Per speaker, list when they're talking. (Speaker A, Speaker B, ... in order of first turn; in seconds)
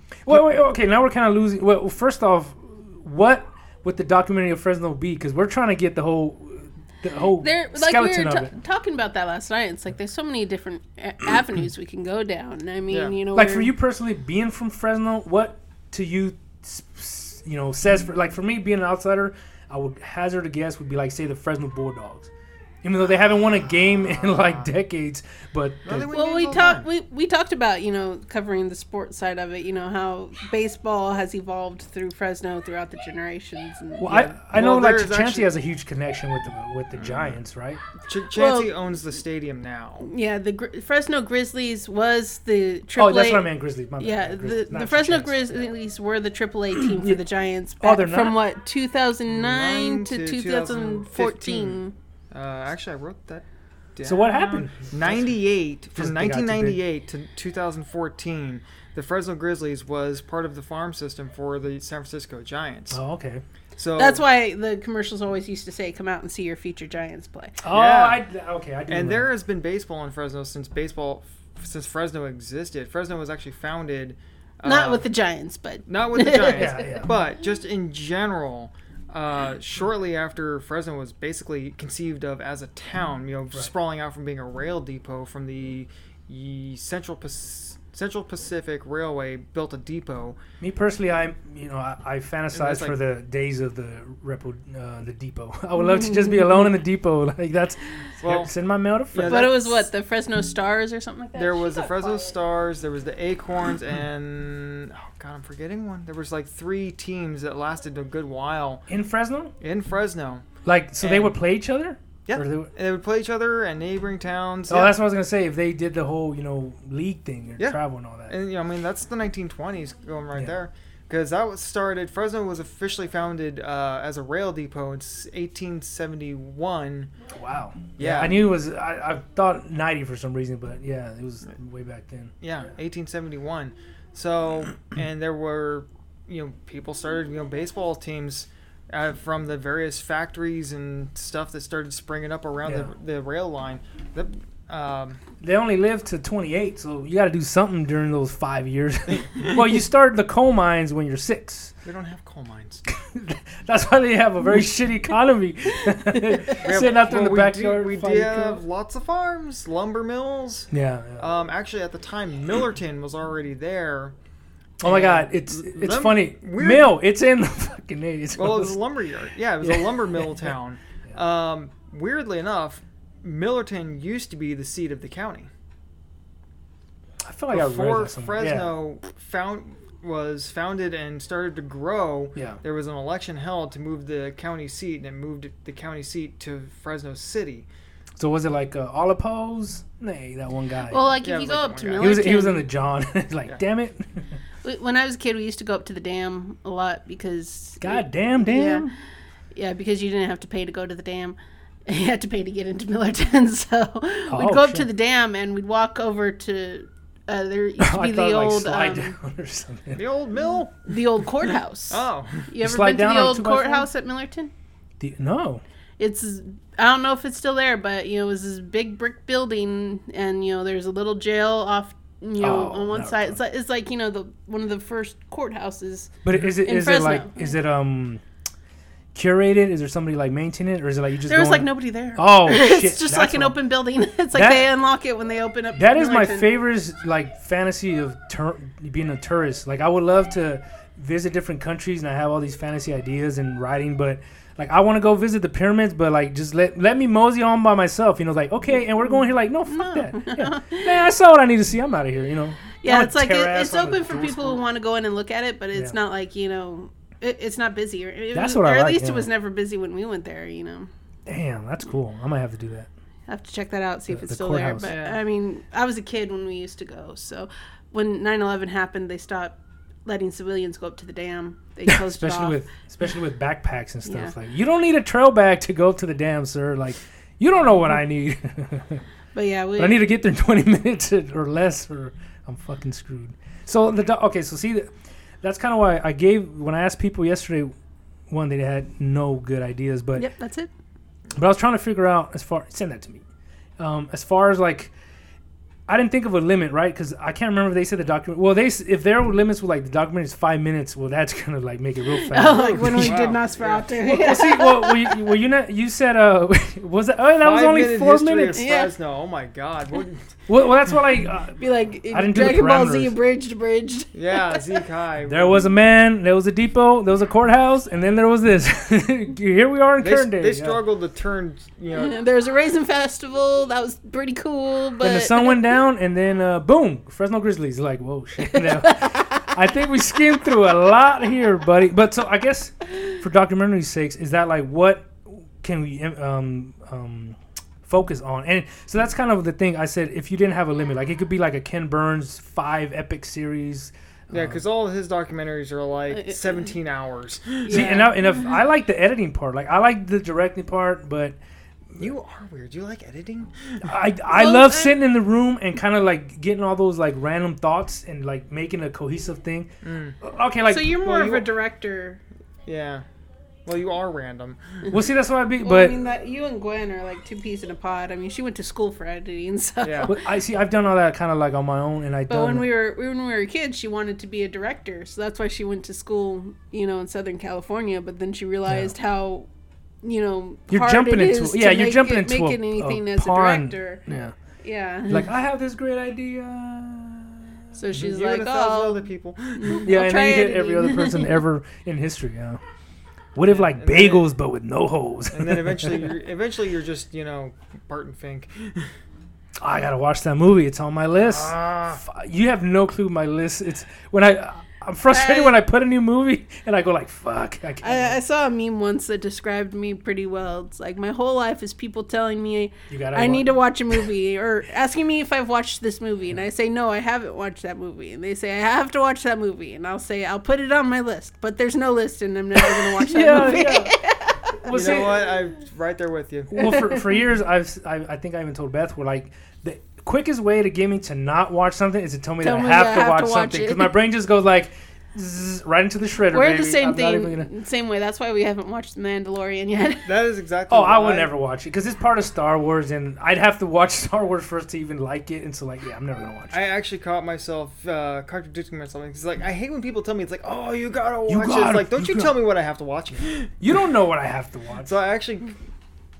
Speaker A: 0.2-8.5, 13.3-22.3, 22.8-26.1, 34.0-37.8, 43.0-45.7, 46.7-47.2, 47.8-48.4, 54.0-55.4, 56.0-56.8, 62.9-63.4, 67.6-69.3, 76.5-77.1, 90.6-99.6, 108.9-109.5, 110.6-112.7, 114.7-118.3, 127.3-132.3, 142.7-142.9, 145.4-151.7, 152.9-158.6, 160.7-161.3, 164.8-168.8, 169.6-170.5, 177.2-178.8, 182.3-182.6, 188.2-191.1, 192.0-194.2, 197.8-198.9, 204.3-204.9, 207.8-210.0, 212.6-213.9, 215.0-215.6, 222.4-223.4, 226.2-228.2, 229.1-233.6, 234.3-234.7, 235.8-254.6, 258.3-259.3, 261.3-262.9, 264.1-264.9, 271.9-279.0, 279.8-284.9, 285.4-287.7, 288.3-290.3, 291.4-293.2, 293.8-294.9, 295.9-303.4, 303.9-308.6, 310.5-313.2, 315.2-320.8, 325.0-344.6, 347.7-351.4, 353.8-361.0, 364.9-366.1, 370.1-372.7, 378.7-378.9, 380.7-384.4, 385.1-387.8, 389.8-392.6, 393.4-396.1, 399.6-408.2, 412.9-414.0, 422.6-424.0, 424.6-425.3, 426.5-437.5, 440.7-446.6, 451.3-452.4, 453.6-454.9
Speaker B: 7.4-13.7, 26.1-34.2, 38.3-38.7, 40.1-51.9, 64.0-67.6, 74.7-77.1, 95.8-96.7, 99.2-102.4, 190.9-192.7, 194.6-198.9, 199.5-201.4, 201.9-209.2, 210.9-214.5, 216.0-227.5, 231.3-236.5, 249.7-251.0, 252.8-260.9, 263.3-272.6, 274.1-274.3, 279.3-280.1, 290.2-290.7, 302.1-305.3, 308.6-308.9, 311.6-314.8, 321.9-325.7, 328.4-329.6, 346.1-346.7, 347.6-348.5, 354.3-355.0, 360.7-362.2, 365.6-370.2, 372.3-379.5, 380.0-384.0, 384.6-385.3, 387.8-391.4, 405.1-405.6, 407.8-424.7, 426.6-427.1, 432.4-433.9, 436.3-440.1
Speaker C: 12.9-13.2, 23.9-24.7, 25.9-26.9, 34.1-35.5, 37.0-37.4, 38.0-40.1, 49.3-51.8, 52.3-63.0, 63.8-64.2, 67.7-68.2, 68.9-75.1, 75.9-90.4, 92.5-93.0, 98.2-98.5, 99.1-99.9, 101.3-108.9, 109.6-110.5, 111.0-111.3, 112.3-114.9, 117.6-127.1, 128.0-128.4, 132.4-145.2, 151.8-152.8, 156.6-164.1, 164.8-166.9, 168.3-175.5, 177.5-187.7, 191.2-192.3, 210.0-210.8, 211.9-212.5, 264.8-265.2, 302.6-303.9, 307.4-310.4, 314.1-315.7, 320.0-322.2, 344.3-347.9, 352.0-353.9, 359.8-360.2, 361.0-361.5, 362.7-363.1, 363.7-364.9, 369.8-370.1, 387.9-389.8, 393.5-394.2, 395.3-398.9, 401.2-402.0, 424.7-426.8, 440.1-441.3, 446.5-453.6, 454.9-455.6